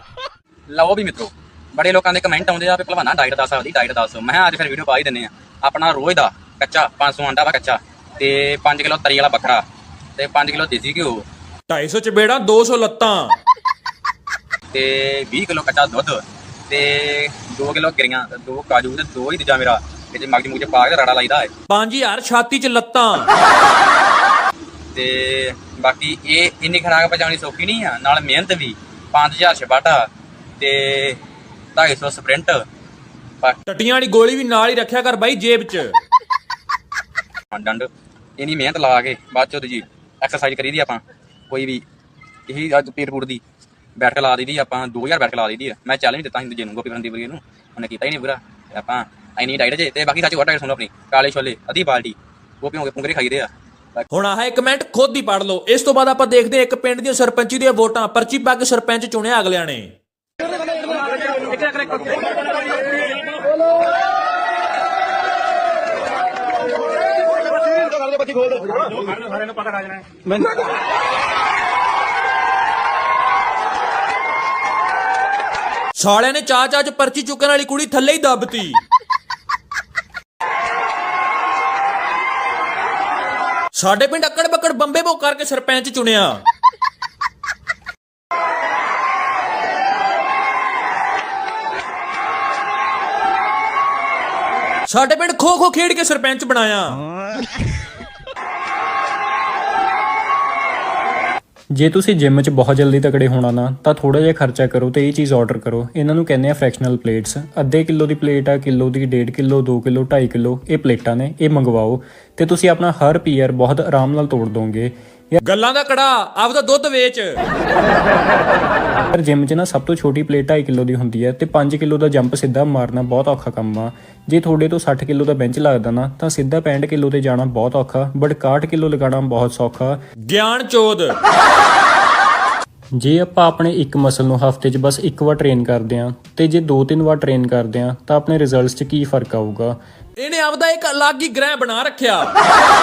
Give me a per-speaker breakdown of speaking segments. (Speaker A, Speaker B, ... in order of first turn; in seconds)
Speaker A: 0.7-9.6, 10.2-11.2, 14.7-21.5, 24.9-30.1, 30.6-31.2, 31.7-32.6, 37.5-41.8, 42.5-43.4, 44.0-54.1
Speaker B: 11.7-13.4, 21.7-23.3, 33.7-35.9, 54.1-59.9, 76.0-78.8, 83.7-86.4, 94.9-97.0, 115.4-117.4, 130.3-131.1, 140.2-142.3
Speaker C: 101.8-115.4, 119.1-130.0, 133.0-139.8